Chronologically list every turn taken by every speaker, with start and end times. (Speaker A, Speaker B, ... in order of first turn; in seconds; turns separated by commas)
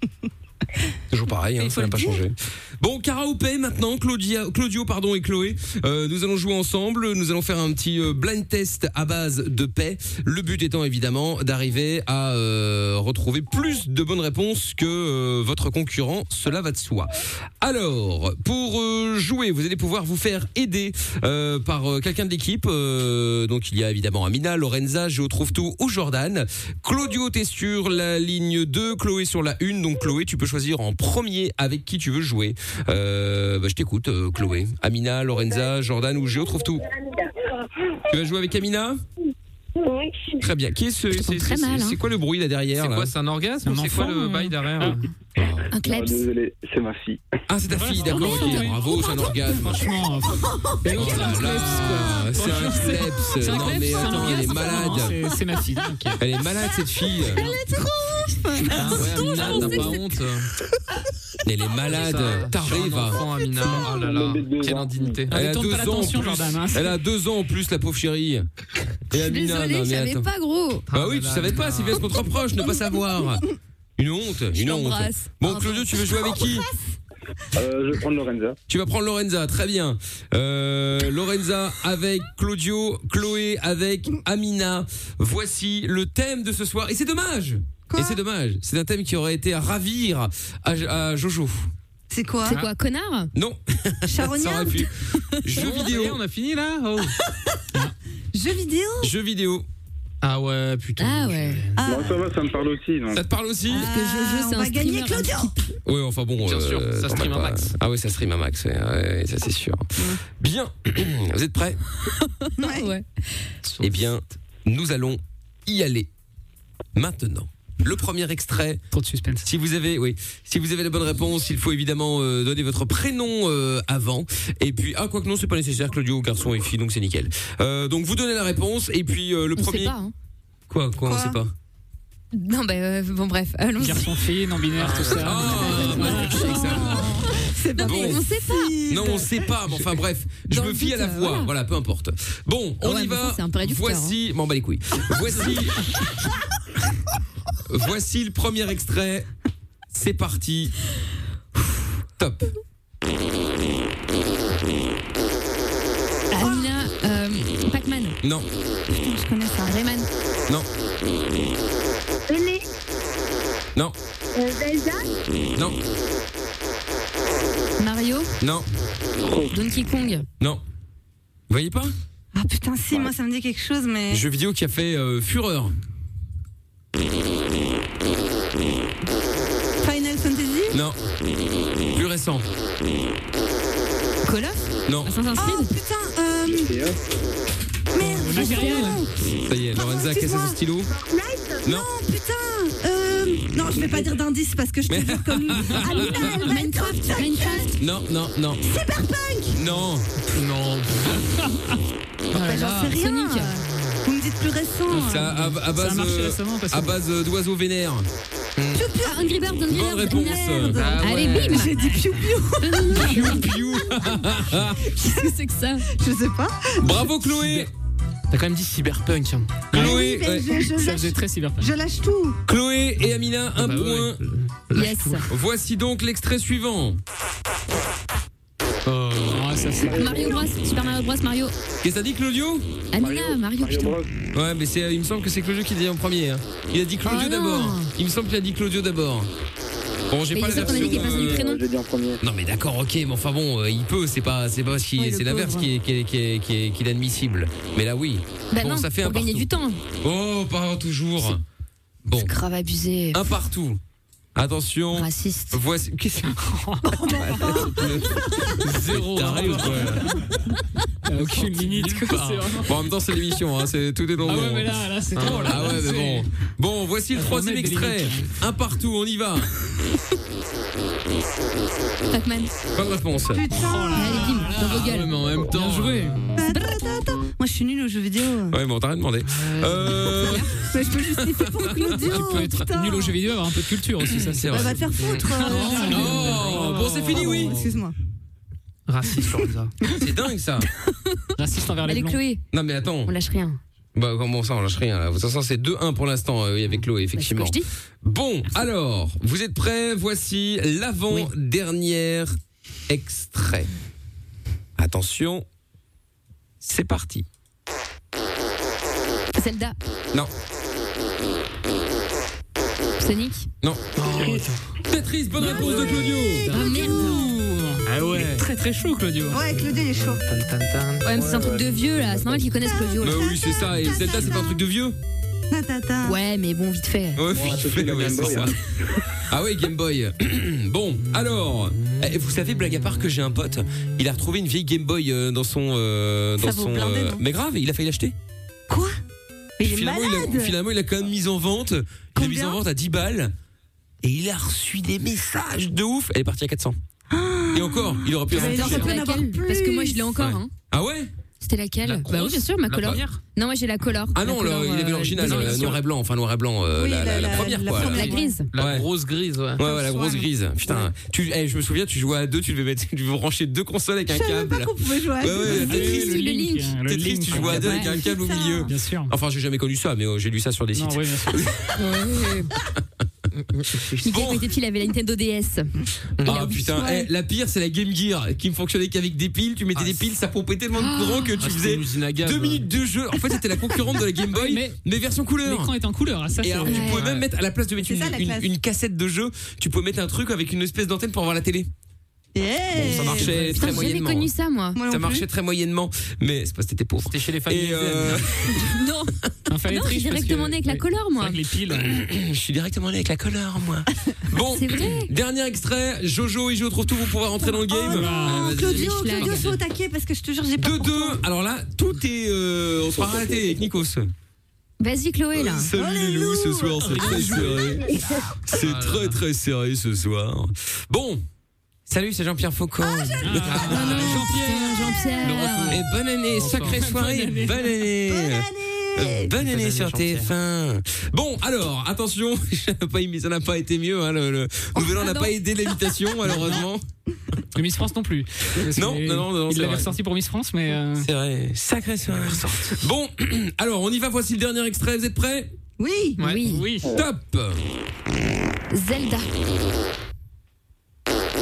Speaker A: 1.1-36.8, Speaker B: 1.6-2.1, Speaker A: 38.1-39.0, Speaker C: 39.8-40.4, Speaker A: 40.4-43.1, Speaker B: 41.1-42.0, Speaker D: 42.8-45.0, Speaker E: 43.6-45.0, Speaker A: 45.4-45.7, Speaker B: 45.7-46.2, Speaker F: 45.8-47.2, Speaker A: 47.5-49.9, Speaker E: 47.7-56.2, Speaker A: 50.9-55.2, Speaker D: 52.3-52.8, Speaker A: 56.2-57.4, Speaker G: 57.0-60.0, Speaker D: 58.7-60.5, Speaker B: 59.2-59.9, Speaker A: 61.4-63.2, Speaker D: 61.9-65.3, Speaker F: 63.5-65.2, Speaker E: 65.3-67.0, Speaker A: 65.3-68.5, Speaker A: 69.1-70.3, Speaker B: 69.1-70.9, Speaker D: 70.9-72.0, Speaker A: 70.9-73.4, Speaker A: 74.0-76.7, Speaker B: 74.5-75.9, Speaker G: 76.1-76.8, Speaker F: 77.5-78.5, Speaker A: 78.7-91.7, Speaker G: 87.9-88.2, Speaker G: 92.1-92.6, Speaker B: 92.4-93.3, Speaker A: 93.3-96.2, Speaker G: 94.1-94.9, Speaker D: 95.5-97.1, Speaker G: 98.3-99.1, Speaker A: 99.0-99.7, Speaker D: 100.2-101.8, Speaker B: 101.0-101.6, Speaker G: 101.8-102.2, Speaker F: 101.8-103.2, Speaker A: 103.1-103.9, Speaker G: 103.7-105.5, Speaker B: 103.7-105.6, Speaker A: 105.8-111.8, Speaker D: 106.5-107.7, Speaker B: 112.2-113.0, Speaker G: 112.6-112.9, Speaker D: 113.6-114.0, Speaker A: 113.8-116.1, Speaker A: 117.0-118.8, Speaker E: 118.9-119.5, Speaker A: 119.4-129.9, Speaker B: 129.6-130.1, Speaker A: 130.7-131.5, Speaker G: 131.0-131.4, Speaker B: 132.3-134.2, Speaker E: 133.8-136.7, Speaker D: 134.8-136.2, Speaker A: 135.1-137.1, Speaker B: 135.6-139.2, Speaker G: 136.3-139.4, Speaker A: 137.8-138.2, Speaker A: 138.9-145.9, Speaker B: 140.5-141.5, Speaker B: 142.8-144.2, Speaker A: 147.7-149.3, Speaker A: 149.9-150.7, Speaker A: 152.2-152.4, Speaker B: 156.3-158.2, Speaker G: 156.4-156.7, Speaker G: 158.9-159.8, Speaker B: 159.6-160.1, Speaker C: 162.3-162.6, Speaker C: 164.3-165.1, Speaker B: 167.8-168.3, Speaker A: 168.4-168.7, Speaker F: 169.2-169.5, Speaker B: 169.5-170.2, Speaker A: 171.5-171.9, Speaker G: 172.3-174.2, Speaker A: 174.1-175.7, Speaker G: 179.8-180.8, Speaker A: 180.7-181.0, Speaker A: 181.9-182.5, Speaker B: 184.2-185.7, Speaker A: 184.9-185.1, Speaker G: 185.4-186.7, Speaker F: 186.5-186.9, Speaker G: 187.9-189.1, Speaker E: 188.0-189.1, Speaker A: 189.4-190.9, Speaker G: 189.8-190.6, Speaker C: 190.9-191.6, Speaker A: 191.6-191.9, Speaker G: 191.7-197.7, Speaker A: 194.9-196.0, Speaker B: 195.9-197.8, Speaker A: 197.8-198.6, Speaker G: 198.6-199.6, Speaker A: 199.5-200.1, Speaker D: 200.3-201.2, Speaker E: 201.4-201.8, Speaker B: 202.3-203.5, Speaker G: 202.3-205.4, Speaker E: 204.9-206.9, Speaker A: 205.0-208.1, Speaker G: 208.7-213.4, Speaker B: 208.9-211.7, Speaker A: 209.7-210.9, Speaker D: 210.7-211.8, Speaker B: 212.6-213.5, Speaker A: 212.9-214.9, Speaker B: 214.8-215.8, Speaker G: 215.9-217.1, Speaker A: 216.8-217.7, Speaker D: 217.1-217.7, Speaker D: 218.3-219.7, Speaker E: 219.7-220.1, Speaker G: 219.7-222.4, Speaker A: 219.7-220.6, Speaker E: 220.7-221.7, Speaker A: 222.5-224.2, Speaker D: 223.6-225.2, Speaker B: 224.7-225.2, Speaker A: 225.3-227.0, Speaker D: 228.8-229.7, Speaker E: 229.3-230.2, Speaker F: 229.8-230.4, Speaker B: 229.9-231.5, Speaker A: 231.8-232.7, Speaker B: 232.9-234.0, Speaker F: 232.9-234.1, Speaker A: 234.3-239.3, Speaker B: 237.0-237.9, Speaker A: 240.1-241.4, Speaker B: 240.3-241.6, Speaker F: 240.4-242.2, Speaker A: 242.2-249.5, Speaker G: 245.0-245.5, Speaker B: 245.0-245.6, Speaker B: 248.5-249.8, Speaker A: 250.0-251.4, Speaker A: 252.0-252.3, Speaker B: 252.1-253.2, Speaker A: 253.1-253.8, Speaker A: 254.3-256.4, Speaker B: 254.9-255.6, Speaker E: 256.5-257.5, Speaker G: 256.8-258.0, Speaker A: 257.1-260.1, Speaker D: 258.6-260.0, Speaker E: 261.1-262.7, Speaker D: 261.1-262.5, Speaker A: 262.6-264.7, Speaker E: 264.2-266.2, Speaker D: 265.1-265.8, Speaker A: 265.2-269.5, Speaker E: 267.1-268.3, Speaker B: 272.1-272.5, Speaker A: 272.7-273.4, Speaker G: 273.3-274.5, Speaker E: 273.5-276.3, Speaker B: 273.9-275.1, Speaker D: 274.5-276.2, Speaker G: 276.4-278.6, Speaker B: 276.5-276.8, Speaker A: 278.5-282.5, Speaker D: 279.3-280.1, Speaker G: 280.2-283.2, Speaker E: 282.1-286.6, Speaker A: 284.0-284.8, Speaker G: 284.5-287.9, Speaker D: 285.0-285.3, Speaker A: 285.9-287.6, Speaker D: 286.0-287.6, Speaker D: 288.9-289.7, Speaker A: 289.9-290.7, Speaker E: 291.4-292.2, Speaker B: 291.9-292.4, Speaker A: 292.5-293.1, Speaker B: 293.1-293.6, Speaker A: 293.9-302.3, Speaker B: 297.1-297.7, Speaker A: 302.9-303.7, Speaker A: 304.8-305.4, Speaker A: 306.6-307.2, Speaker B: 309.4-309.8, Speaker B: 313.0-313.5, Speaker D: 313.9-314.6, Speaker A: 314.9-316.5, Speaker D: 315.4-316.8, Speaker B: 316.5-317.3, Speaker E: 316.6-319.4, Speaker G: 316.8-317.2, Speaker D: 317.9-318.5, Speaker G: 319.3-320.2, Speaker D: 319.7-321.2, Speaker B: 321.0-324.4, Speaker F: 321.2-322.4, Speaker A: 323.0-325.0, Speaker G: 325.5-326.2, Speaker B: 326.0-327.2, Speaker A: 327.1-328.5, Speaker F: 327.3-328.5, Speaker D: 328.1-328.5, Speaker A: 329.3-338.1, Speaker G: 336.4-337.2, Speaker G: 338.7-339.0, Speaker G: 339.6-340.5, Speaker A: 339.6-343.3, Speaker G: 342.1-342.6, Speaker A: 344.0-346.8, Speaker G: 347.1-350.1, Speaker A: 347.5-348.9, Speaker B: 348.3-350.5, Speaker D: 348.4-348.9, Speaker A: 350.2-351.1, Speaker B: 351.4-355.7, Speaker D: 351.8-353.2, Speaker A: 354.1-358.9, Speaker D: 355.2-355.8, Speaker G: 356.7-358.4, Speaker B: 357.8-358.5, Speaker D: 358.5-359.7, Speaker A: 359.6-366.1, Speaker G: 359.6-360.9, Speaker G: 364.1-365.9, Speaker E: 365.5-368.0, Speaker B: 365.5-366.8, Speaker A: 366.8-371.7, Speaker B: 367.4-367.9, Speaker G: 367.9-368.7, Speaker E: 368.7-369.1, Speaker E: 370.7-371.5, Speaker B: 371.8-372.5, Speaker D: 373.3-374.0, Speaker A: 373.9-374.5, Speaker B: 374.0-375.7, Speaker D: 376.2-376.6, Speaker A: 376.2-385.7, Speaker B: 376.2-377.1, Speaker D: 379.7-380.1, Speaker B: 380.8-381.4, Speaker D: 381.4-382.7, Speaker E: 384.3-384.8, Speaker E: 385.4-387.0, Speaker A: 386.4-391.7, Speaker B: 386.6-387.0, Speaker G: 387.8-388.5, Speaker G: 392.3-393.5, Speaker A: 392.7-394.3, Speaker D: 392.9-393.8, Speaker B: 393.3-394.8, Speaker G: 394.7-395.2, Speaker A: 394.8-398.6, Speaker D: 397.0-398.2, Speaker B: 398.5-399.1, Speaker E: 399.5-401.9, Speaker B: 399.7-401.4, Speaker A: 401.7-408.9, Speaker B: 404.5-405.1, Speaker G: 407.4-411.2, Speaker E: 407.9-408.7, Speaker B: 408.4-409.5, Speaker A: 410.6-414.1, Speaker F: 413.0-413.4, Speaker B: 414.8-415.7, Speaker A: 415.3-417.9, Speaker G: 415.7-418.4, Speaker D: 416.8-417.8, Speaker A: 418.5-421.2, Speaker D: 418.5-419.2, Speaker A: 421.9-424.2, Speaker G: 422.8-423.2, Speaker E: 423.2-424.8, Speaker D: 423.3-424.3, Speaker G: 423.8-425.4, Speaker B: 423.8-425.8, Speaker D: 425.2-426.9, Speaker A: 425.7-436.8, Speaker E: 426.5-427.7, Speaker G: 428.0-429.3, Speaker D: 429.4-430.3, Speaker B: 434.8-435.3, Speaker E: 437.5-441.1, Speaker A: 438.6-439.9, Speaker A: 441.0-445.5, Speaker G: 445.8-446.2, Speaker D: 446.2-446.5, Speaker B: 446.2-446.7, Speaker E: 446.4-446.9, Speaker A: 446.9-447.6, Speaker B: 448.7-449.3